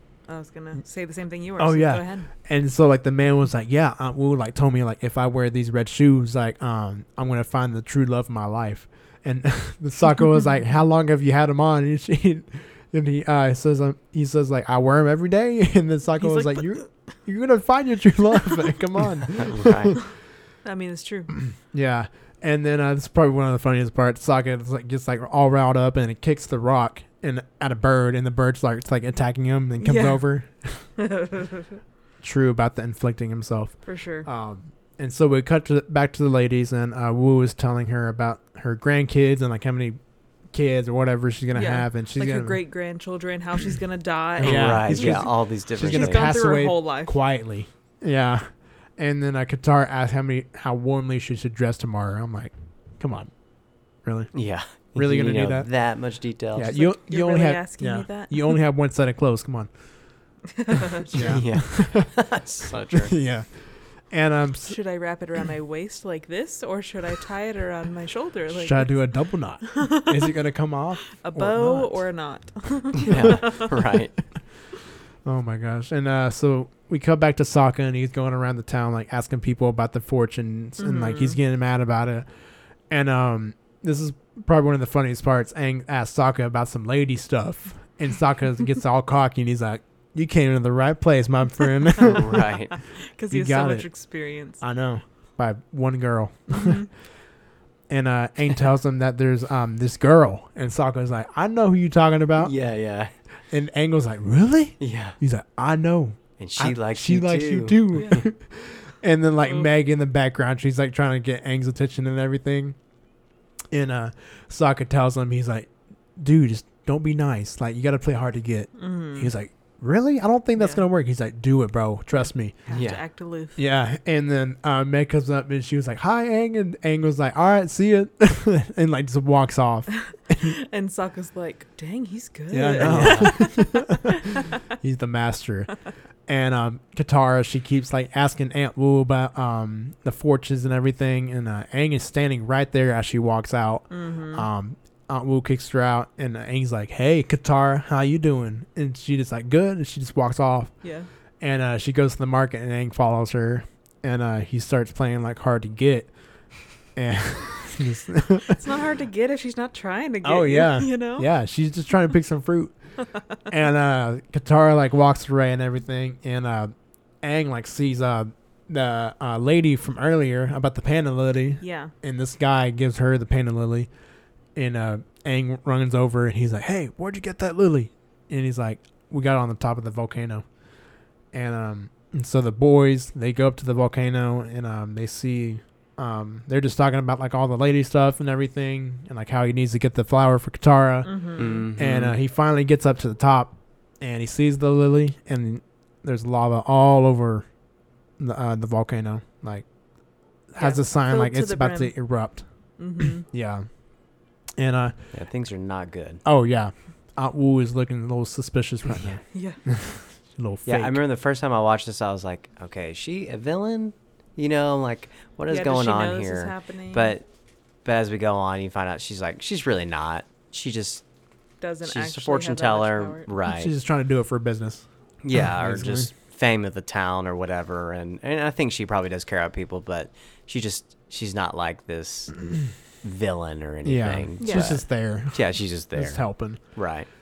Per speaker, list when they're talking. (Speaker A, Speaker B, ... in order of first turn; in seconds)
Speaker A: 0.3-2.3, 16.2-16.9, 20.6-21.4, 29.8-30.3, 31.0-31.8, 33.9-34.3, 41.5-47.2, 56.7-58.6, 60.5-61.3, 64.7-70.3, 71.2-73.8, 80.8-81.4, 92.7-94.6, 96.5-96.9, 107.9-108.2, 109.5-109.7, 118.8-119.3, 120.6-120.8, 122.7-123.6, 130.3-134.4, 143.9-144.5, 150.8-151.1, 158.5-161.3, 171.6-171.9, 191.1-191.7, 200.6-202.2, 202.8-203.3, 209.3-209.6, 215.5-217.2, 221.6-223.3, 234.4-234.8
Speaker B: 1.6-20.0, 21.5-30.9, 32.2-40.0, 40.5-42.6, 44.4-53.3, 54.0-54.3, 55.0-55.7, 56.5-59.7, 61.1-62.1, 63.0-64.8, 68.5-72.0, 75.2-82.3, 82.9-92.5, 93.3-93.9, 94.6-96.9, 97.9-102.5, 103.5-112.8, 113.7-122.6, 123.6-130.5, 132.5-135.8, 136.3-150.7, 151.4-156.1, 156.9-158.6, 160.2-162.8, 163.5-173.9, 174.6-180.4, 181.3-197.5, 198.2-199.7, 200.5-202.5, 203.2-203.7, 204.6-204.9, 206.2-211.0, 223.4-224.9, 225.4-226.1, 233.8-236.7
Speaker C: 19.3-20.0, 44.4-46.3, 54.3-56.8, 61.1-63.1, 73.0-74.2, 92.0-92.8, 102.4-103.1, 104.8-105.2, 106.4-108.2, 122.7-123.0, 132.8-133.4, 191.4-192.2, 205.1-206.2, 210.7-217.3, 217.8-221.1, 221.8-223.7, 225.2-232.5, 233.0-237.1